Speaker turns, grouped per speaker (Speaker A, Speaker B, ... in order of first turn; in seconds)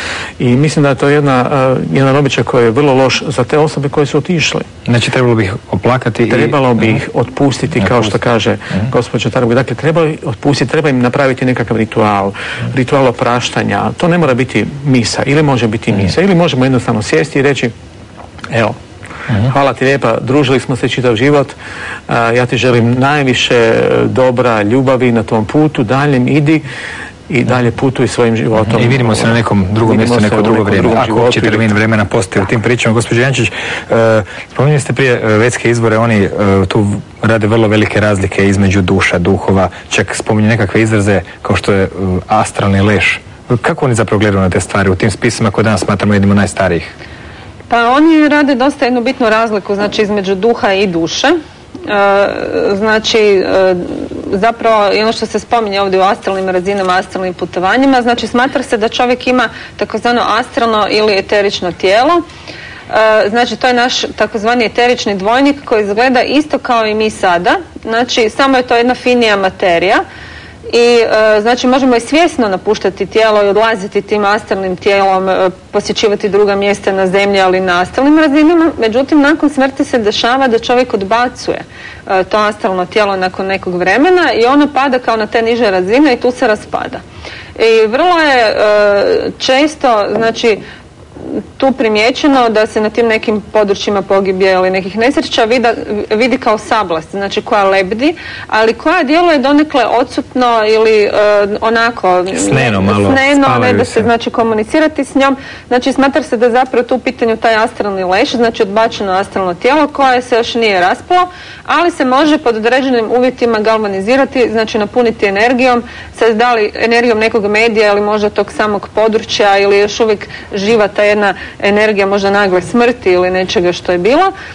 Speaker A: 0.4-4.7, 6.3-17.7, 18.5-18.8, 19.4-21.6, 22.1-26.7, 27.3-31.7
Speaker B: 4.9-7.0, 7.8-8.1, 28.7-46.9, 102.3-104.1
Speaker C: 47.7-62.2, 62.9-70.0, 70.7-87.0, 87.5-90.6, 91.6-124.3